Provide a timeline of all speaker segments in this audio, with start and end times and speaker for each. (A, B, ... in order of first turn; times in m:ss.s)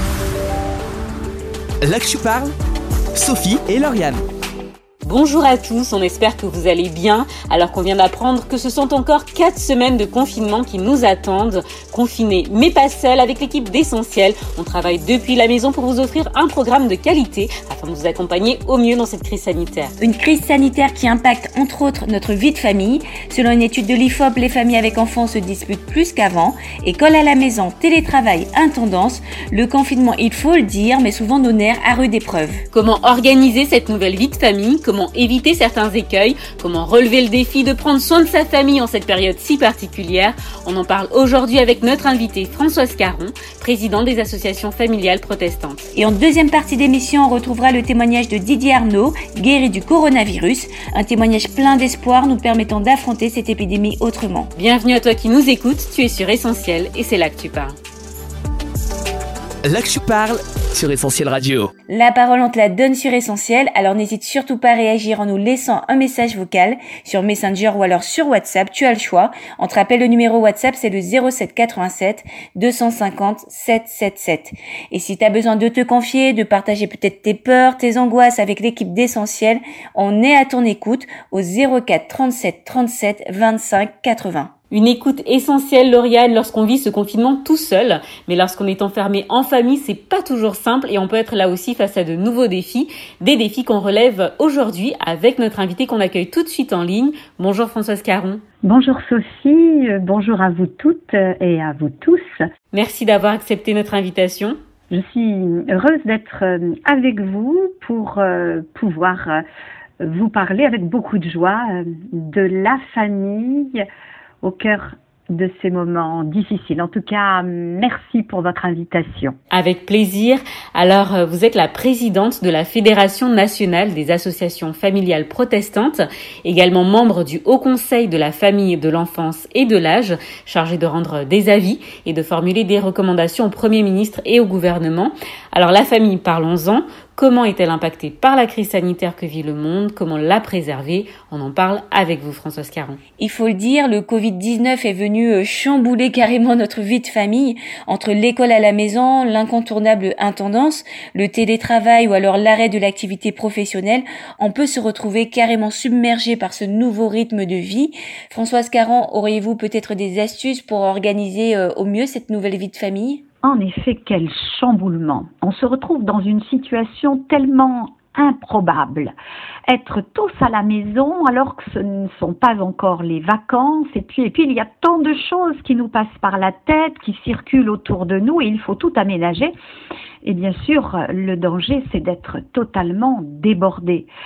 0:01.8-0:02.5 A
0:03.2-0:04.2 A
0:05.0-0:19.9 B
0:20.0-0:32.6 C
0:32.7-0:45.8 B
0:46.0-0:54.5 C
0:54.6-0:57.8 B
0:59.6-1:01.7 A
1:01.9-1:24.5 C
1:24.7-1:38.4 B
1:38.6-1:42.5 D
1:42.7-1:44.6 B
1:44.9-1:49.4 D
1:50.0-1:53.8 D
1:54.4-1:59.4 D
1:59.5-2:23.0 B
2:23.2-2:43.2 C
2:43.4-2:49.1 D
2:49.7-2:59.5 D
3:00.2-3:04.1 D